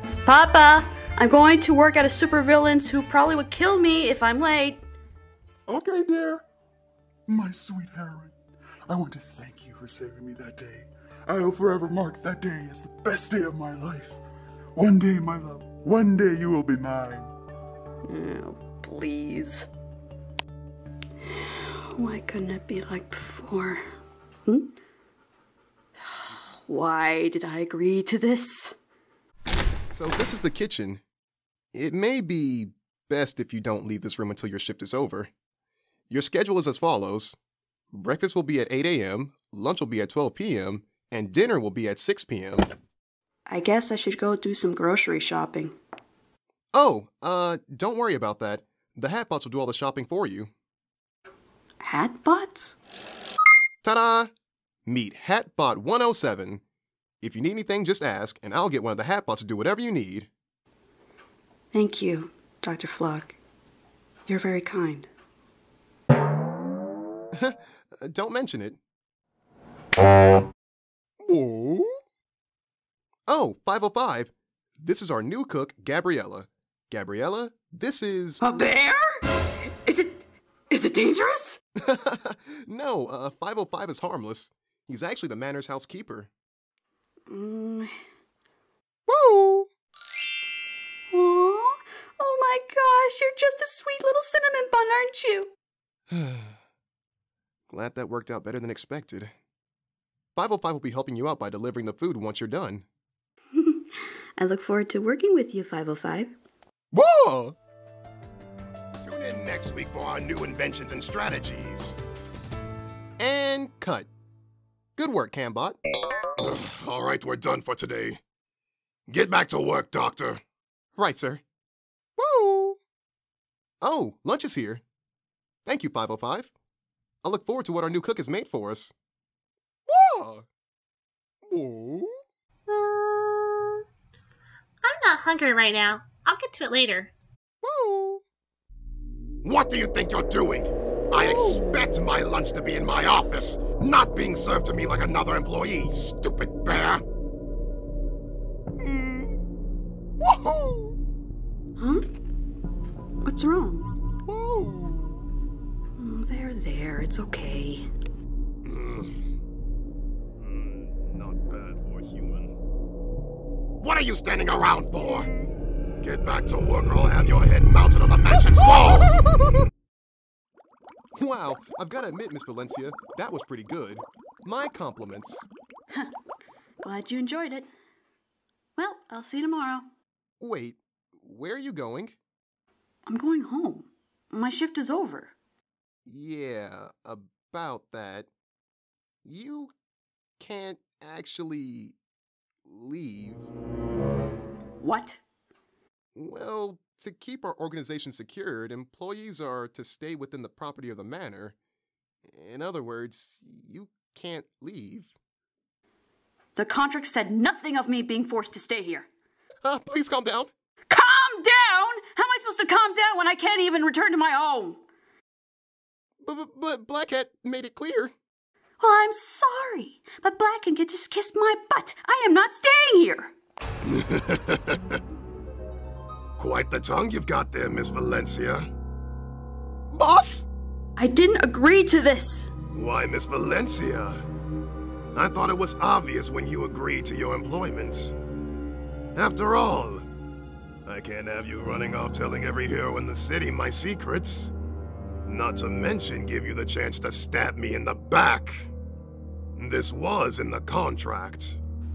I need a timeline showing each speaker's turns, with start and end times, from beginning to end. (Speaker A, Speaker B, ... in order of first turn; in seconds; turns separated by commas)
Speaker A: 0.2-4.8, Speaker B: 5.7-6.4, Speaker B: 7.3-8.3, Speaker B: 8.9-14.2, Speaker B: 14.8-17.3, Speaker A: 18.0-19.7, Speaker A: 21.8-23.8, Speaker A: 24.4-24.7, Speaker A: 26.2-28.7, Speaker C: 29.9-31.0, Speaker C: 31.7-35.3, Speaker C: 36.1-37.4, Speaker C: 37.9-42.7, Speaker A: 43.5-45.8, Speaker C: 46.7-50.5, Speaker A: 51.8-52.8, Speaker C: 53.8-54.3, Speaker C: 54.9-56.6, Speaker C: 57.2-60.3, Speaker A: 61.7-63.4, Speaker A: 64.3-65.1, Speaker C: 67.3-68.8, Speaker C: 71.2-71.9, Speaker C: 73.3-78.4, Speaker A: 78.4-79.0, Speaker A: 79.8-81.6, Speaker C: 81.8-86.3, Speaker A: 87.3-87.9, Speaker C: 89.1-89.7, Speaker A: 91.1-95.5, Speaker C: 96.1-96.5, Speaker C: 97.7-99.3, Speaker C: 100.3-102.8, Speaker A: 103.5-106.3, Speaker C: 106.9-107.5, Speaker C: 109.0-109.6, Speaker D: 109.5-111.9, Speaker C: 113.2-114.1, Speaker C: 115.0-115.8, Speaker D: 116.4-118.2, Speaker D: 119.1-120.4, Speaker C: 121.0-121.4, Speaker C: 122.2-122.8, Speaker C: 123.8-124.8, Speaker C: 125.7-126.5, Speaker C: 127.2-128.9, Speaker C: 129.9-130.4, Speaker C: 131.5-132.2, Speaker E: 132.7-133.8, Speaker E: 134.8-137.1, Speaker C: 137.6-138.2, Speaker D: 139.4-147.0, Speaker C: 141.1-142.0, Speaker C: 148.8-149.4, Speaker C: 150.2-151.0, Speaker A: 151.8-152.0, Speaker A: 153.2-153.9, Speaker C: 154.2-155.2, Speaker A: 156.0-157.9, Speaker D: 158.6-159.1, Speaker D: 160.4-162.5, Speaker D: 163.8-165.3, Speaker C: 165.0-165.4, Speaker D: 166.0-169.2, Speaker C: 171.2-175.5, Speaker A: 176.8-177.7, Speaker A: 178.8-179.8, Speaker C: 180.4-182.2, Speaker A: 183.1-185.3, Speaker C: 186.1-188.3, Speaker C: 189.2-189.7, Speaker C: 190.4-192.0, Speaker C: 192.7-193.5, Speaker A: 194.8-195.2, Speaker C: 196.1-201.6, Speaker C: 202.3-205.1, Speaker A: 206.5-209.1, Speaker C: 209.6-210.5, Speaker A: 210.9-214.8, Speaker C: 216.2-218.1, Speaker A: 218.8-223.3, Speaker D: 223.9-224.7, Speaker D: 226.4-228.7, Speaker C: 229.9-230.5, Speaker A: 231.0-232.5, Speaker D: 232.7-234.2, Speaker D: 235.1-238.1, Speaker D: 239.1-240.0, Speaker D: 240.8-244.5, Speaker D: 245.3-248.7, Speaker D: 249.6-251.6